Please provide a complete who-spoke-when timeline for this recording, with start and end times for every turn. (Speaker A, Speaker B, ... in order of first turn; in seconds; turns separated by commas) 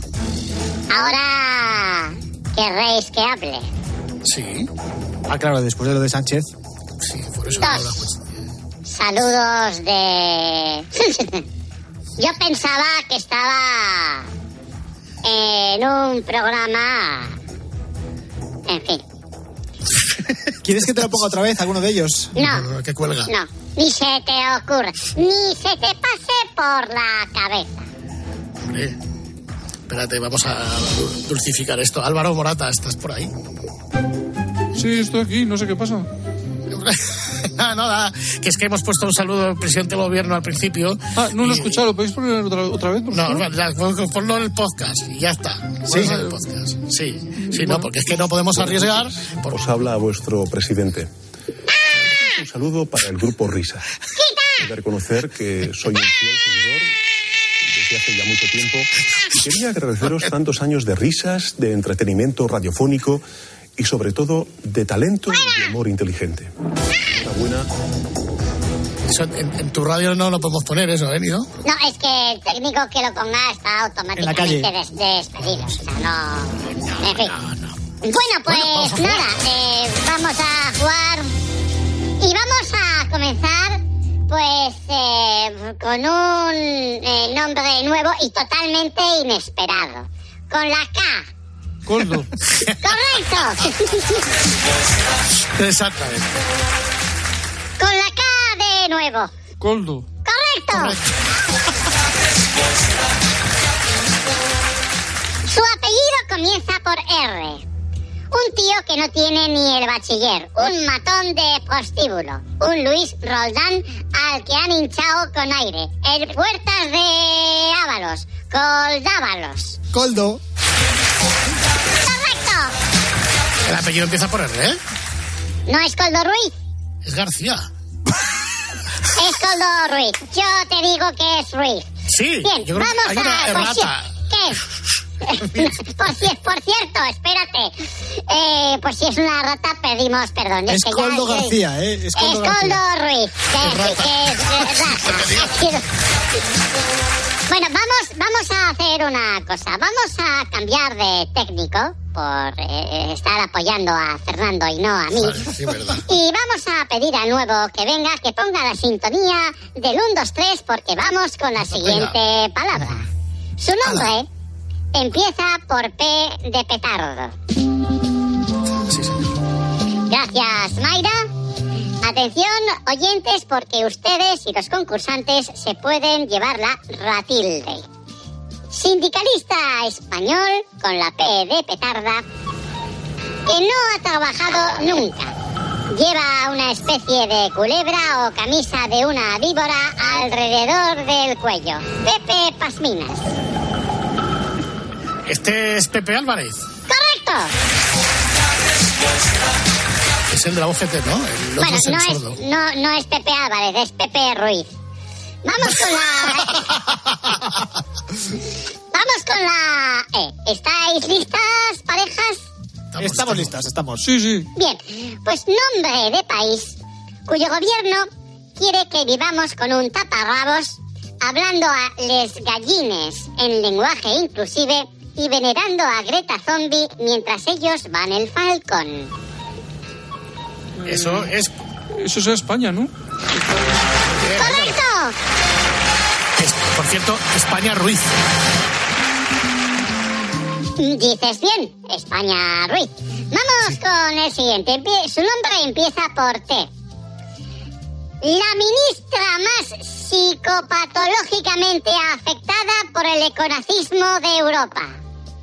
Speaker A: 0.9-3.6, Speaker B: 4.2-4.7, Speaker C: 5.3-6.5, Speaker B: 7.0-8.2, Speaker A: 7.6-8.0, Speaker A: 8.9-11.4, Speaker A: 12.2-14.3, Speaker A: 15.2-17.4, Speaker A: 18.7-19.0, Speaker C: 20.6-22.3, Speaker A: 22.4-22.7, Speaker B: 22.4-23.3, Speaker A: 23.3-27.8, Speaker B: 28.6-29.0, Speaker B: 29.9-33.3, Speaker D: 34.8-36.1, Speaker B: 36.7-41.8, Speaker D: 41.2-43.4, Speaker B: 43.1-49.5, Speaker D: 45.9-46.3, Speaker D: 47.4-47.9, Speaker E: 48.6-51.1, Speaker E: 52.0-53.9, Speaker A: 54.2-54.6, Speaker E: 54.6-56.9, Speaker E: 57.6-63.2, Speaker E: 63.8-66.5, Speaker E: 67.1-67.7, Speaker B: 69.1-71.5, Speaker A: 71.6-77.4, Speaker C: 74.2-74.7, Speaker B: 77.1-77.6, Speaker A: 78.0-81.3, Speaker B: 78.5-79.2, Speaker A: 82.2-91.2, Speaker D: 91.9-92.3, Speaker A: 92.8-94.2, Speaker B: 95.4-96.3, Speaker A: 97.8-99.3, Speaker D: 99.6-100.1, Speaker A: 100.2-101.0, Speaker B: 100.7-101.0, Speaker A: 105.5-107.6, Speaker A: 108.3-119.8, Speaker C: 119.9-120.4, Speaker A: 122.0-122.7, Speaker B: 123.7-124.8, Speaker A: 125.7-126.5, Speaker B: 127.0-127.7, Speaker A: 129.2-131.9, Speaker B: 132.1-134.2, Speaker A: 132.4-134.6, Speaker A: 135.3-137.8, Speaker A: 138.3-141.6, Speaker C: 140.7-142.8, Speaker A: 142.2-145.8, Speaker B: 143.6-145.6, Speaker A: 147.5-155.5, Speaker B: 155.2-156.0, Speaker A: 156.1-163.1, Speaker B: 161.7-162.2, Speaker A: 163.6-164.3, Speaker A: 164.9-167.3, Speaker B: 168.9-169.2, Speaker A: 170.1-171.2, Speaker A: 172.0-177.8, Speaker A: 178.7-182.2, Speaker A: 183.5-185.3, Speaker A: 185.9-193.2, Speaker B: 195.3-196.6, Speaker A: 196.9-197.5, Speaker B: 200.3-202.4, Speaker A: 201.6-204.7, Speaker A: 205.4-206.6, Speaker A: 208.9-212.4, Speaker B: 212.9-213.5, Speaker C: 213.0-214.0, Speaker D: 214.0-214.5, Speaker A: 214.6-216.8, Speaker A: 217.3-229.1, Speaker B: 230.8-231.5, Speaker D: 230.9-231.2, Speaker D: 232.0-232.9, Speaker B: 234.2-234.8, Speaker A: 234.4-235.2, Speaker B: 236.4-238.2, Speaker A: 240.8-246.7, Speaker A: 248.2-254.9